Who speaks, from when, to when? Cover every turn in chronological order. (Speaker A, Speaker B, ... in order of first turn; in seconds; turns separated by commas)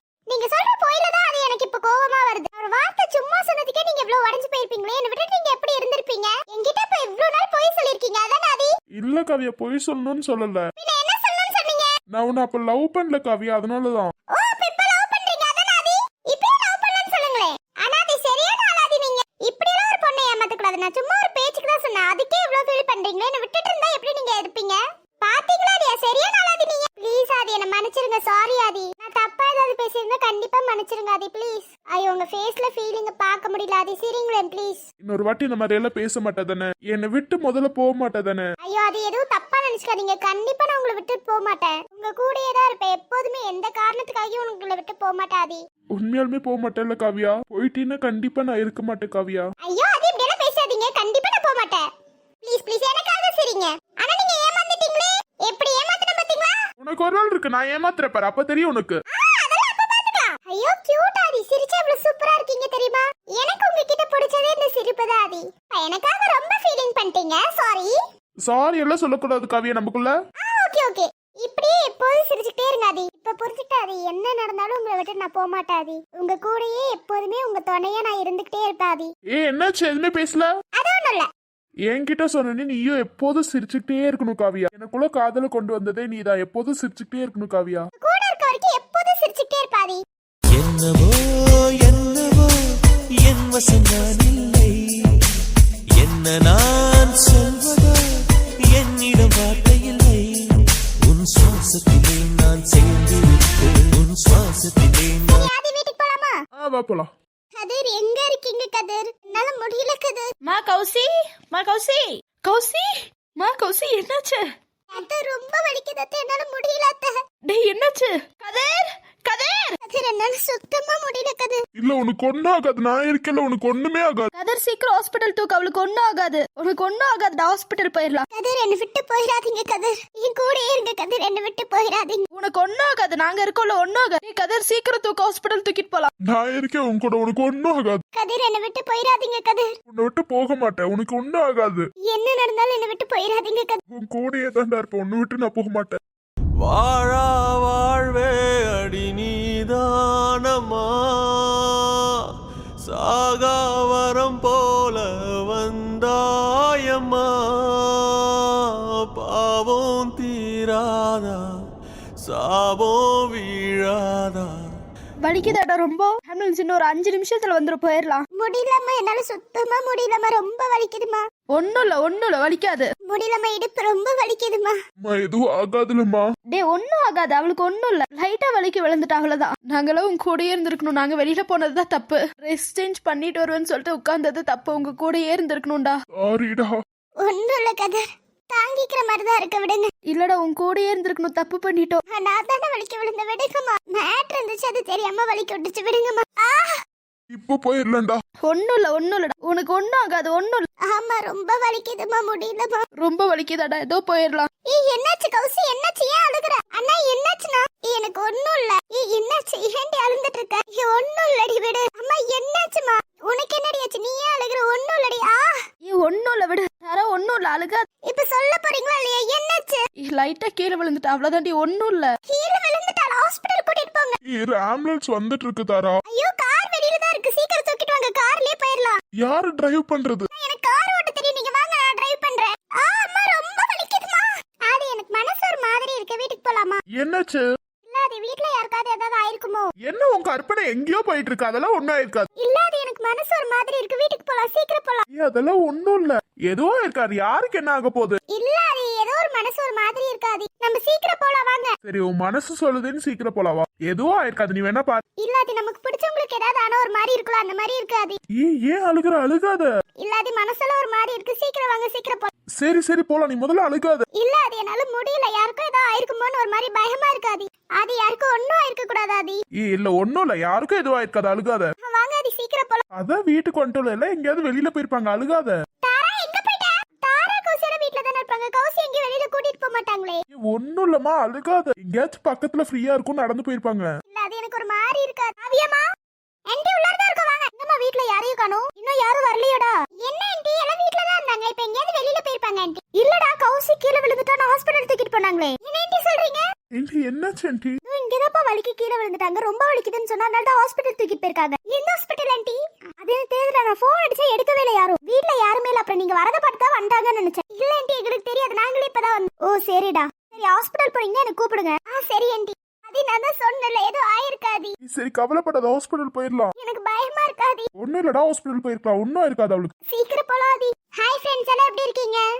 Speaker A: 0.3-8.7, Speaker B: 8.9-10.7, Speaker A: 10.8-11.9, Speaker B: 12.1-14.1, Speaker A: 14.3-34.8, Speaker B: 35.0-38.5, Speaker A: 38.6-45.6, Speaker B: 46.0-49.5, Speaker A: 49.6-51.8, Speaker A: 52.4-56.5, Speaker B: 56.8-59.0, Speaker A: 59.1-67.9, Speaker B: 68.4-70.1, Speaker A: 70.4-79.1, Speaker B: 79.3-80.5, Speaker A: 80.8-81.3, Speaker B: 81.9-87.9, Speaker A: 88.0-90.0, Speaker C: 90.5-95.2, Speaker C: 96.0-98.2, Speaker C: 98.7-105.5, Speaker A: 105.3-106.4, Speaker B: 106.5-107.1, Speaker A: 107.6-110.3, Speaker D: 110.4-114.4, Speaker A: 114.9-117.2, Speaker D: 117.5-119.8, Speaker A: 119.8-121.6, Speaker B: 121.8-124.3, Speaker D: 124.3-128.2, Speaker A: 128.3-132.2, Speaker D: 132.3-136.1, Speaker B: 136.2-138.0, Speaker A: 138.2-139.7, Speaker B: 139.9-141.8, Speaker A: 142.1-143.8, Speaker B: 143.9-146.0, Speaker E: 146.6-152.0, Speaker E: 152.8-161.5, Speaker E: 162.2-164.6, Speaker D: 165.2-168.2, Speaker A: 168.4-171.2, Speaker D: 171.5-172.9, Speaker A: 173.1-174.8, Speaker B: 175.0-176.2, Speaker D: 176.5-185.9, Speaker B: 186.2-186.7, Speaker A: 187.2-189.9, Speaker D: 190.1-192.0, Speaker A: 192.1-196.8, Speaker B: 197.3-198.2, Speaker D: 198.4-200.7, Speaker A: 200.9-202.8, Speaker D: 203.0-204.5, Speaker A: 204.7-215.5, Speaker D: 215.9-217.8, Speaker A: 218.1-219.8, Speaker D: 220.0-222.1, Speaker A: 222.3-224.2, Speaker B: 224.3-226.0, Speaker A: 226.1-229.0, Speaker B: 229.2-230.3, Speaker A: 230.3-236.8, Speaker B: 236.9-237.4, Speaker A: 237.8-239.7, Speaker B: 239.8-242.3, Speaker A: 242.4-245.0, Speaker B: 245.1-248.2, Speaker A: 248.3-251.7, Speaker B: 251.8-255.0, Speaker A: 255.2-258.2, Speaker B: 258.4-259.7, Speaker A: 260.0-262.3, Speaker B: 262.6-264.1, Speaker A: 264.1-269.4, Speaker B: 269.6-271.7, Speaker A: 271.9-272.8, Speaker B: 272.9-275.6, Speaker A: 275.8-280.2, Speaker B: 280.4-283.9, Speaker A: 284.1-285.9, Speaker A: 286.5-296.5, Speaker B: 296.7-297.8, Speaker A: 297.9-314.7, Speaker B: 314.8-316.5, Speaker A: 316.6-317.6, Speaker B: 317.8-319.7, Speaker A: 319.9-322.2